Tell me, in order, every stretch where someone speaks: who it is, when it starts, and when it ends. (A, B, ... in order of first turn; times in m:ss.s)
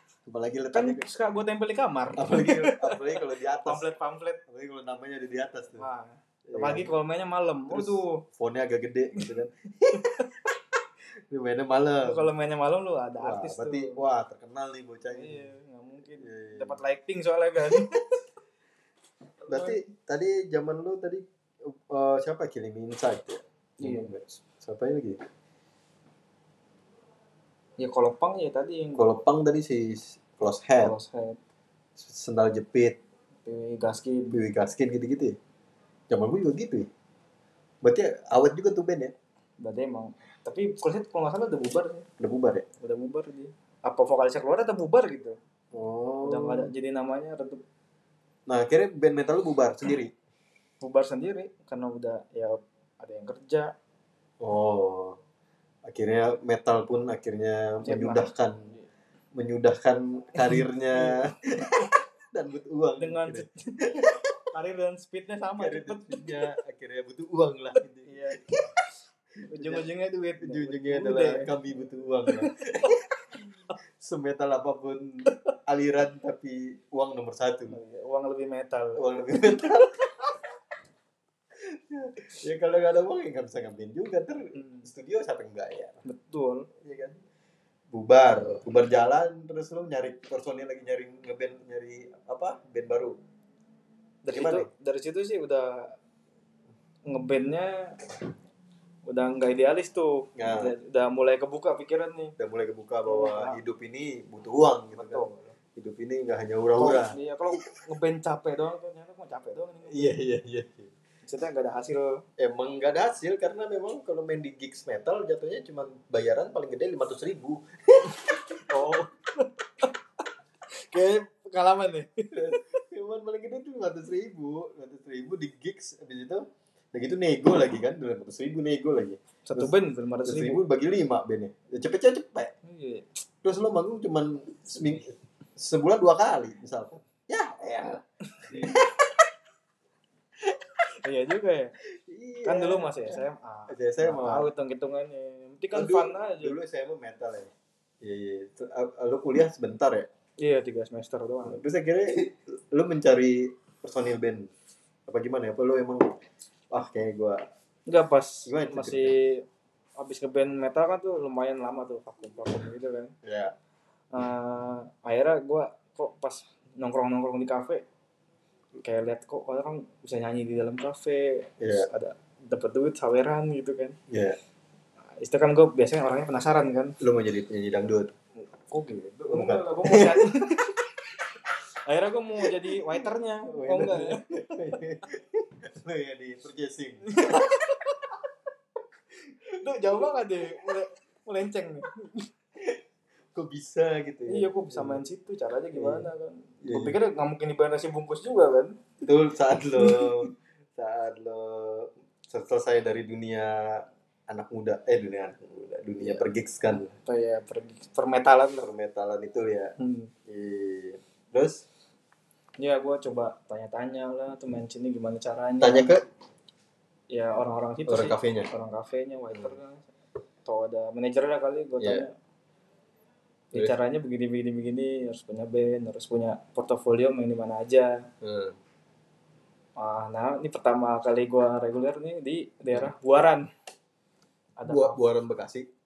0:00.2-0:01.0 A
0:00.7-0:04.4 B
0:02.2-0:03.9 A
0:04.5-0:05.8 A
0:05.8-0:08.2 B
0:06.5-0:06.9 A
0:07.7-0:10.3 A
0:09.9-0:10.3 B
0:11.3-0:12.3 A
0:12.0-0:14.0 B
0:13.2-0:15.5 A
0:15.1-0:18.0 B
0:16.2-0:16.8 A
0:17.6-0:17.9 A
0:19.4-0:19.8 B
0:19.5-0:25.2 A
0:23.8-0:24.2 B
0:27.8-0:29.1 B
0:29.0-0:30.9 A
0:30.8-0:31.4 B
0:32.0-0:33.0 A
0:33.4-0:34.3 B
0:34.3-0:35.4 A
0:36.1-0:36.9 A
0:37.8-0:39.1 A
0:39.6-0:42.1 B
0:42.2-0:42.6 A
0:42.8-0:45.4 B
0:45.7-0:46.7 A
0:46.2-0:47.6 B
0:48.5-0:50.1 A
0:50.8-0:53.7 B
0:54.4-0:55.2 A
0:55.8-0:58.7 A
0:57.8-0:58.8 B
0:59.3-1:04.2 A
1:00.4-1:01.2 B
1:03.0-1:06.4 B
1:05.6-1:08.1 A
1:08.0-1:08.6 B
1:09.4-1:11.5 B
1:09.5-1:09.9 A
1:10.4-1:13.0 A
1:12.3-1:13.0 B
1:13.9-1:17.8 A
1:17.7-1:19.7 B
1:19.0-1:20.0 A
1:21.6-1:26.0 A
1:24.5-1:24.9 B
1:26.0-1:26.7 B
1:26.8-1:27.2 A
1:27.9-1:33.2 A
1:34.2-1:35.9 B
1:34.3-1:34.7 A
1:37.1-1:38.0 B
1:39.0-1:42.3 B
1:40.4-1:40.7 A
1:42.4-1:47.2 A
1:43.0-1:43.6 B
1:44.9-1:45.6 B
1:46.8-1:50.1 B
1:49.9-1:50.9 A
1:51.2-1:52.2 B
1:52.4-1:58.8 A
1:58.2-1:59.9 B
2:00.7-2:02.8 B
2:02.3-2:12.5 A
2:09.4-2:10.6 B
2:12.6-2:13.1 B
2:13.4-2:18.9 A
2:18.3-2:18.8 B
2:21.0-2:21.7 B
2:21.8-2:24.5 A
2:22.4-2:26.6 B
2:25.7-2:30.1 A
2:30.4-2:31.6 B
2:31.4-2:34.5 A
2:35.1-2:36.1 A
2:36.7-2:37.4 A
2:37.9-2:39.4 B
2:38.4-2:39.1 A
2:40.0-2:43.1 B
2:43.2-2:43.5 A
2:44.1-2:47.8 B
2:48.8-2:54.0 B
2:51.6-2:51.9 A
2:54.1-2:54.4 A
2:55.2-2:57.0 B
2:57.0-2:58.1 A
2:58.4-3:00.8 B
2:59.3-3:00.6 A
3:01.8-3:04.2 B
3:02.5-3:07.6 A
3:07.1-3:07.9 B
3:09.4-3:12.3 B
3:13.3-3:15.0 A
3:14.3-3:18.8 B
3:15.7-3:16.1 A
3:16.6-3:17.0 A
3:19.0-3:26.9 A
3:19.8-3:20.3 B
3:27.0-3:28.7 B
3:28.6-3:29.7 A
3:29.8-3:30.1 B
3:30.2-3:31.6 A
3:32.6-3:36.0 B
3:35.6-3:36.0 A
3:37.1-3:39.9 B
3:37.9-3:38.5 A
3:40.4-3:42.1 B
3:41.8-3:42.0 A
3:43.5-3:48.1 B
3:48.2-3:48.6 A
3:49.8-3:53.5 B
3:54.6-3:55.0 B
3:54.7-3:55.7 A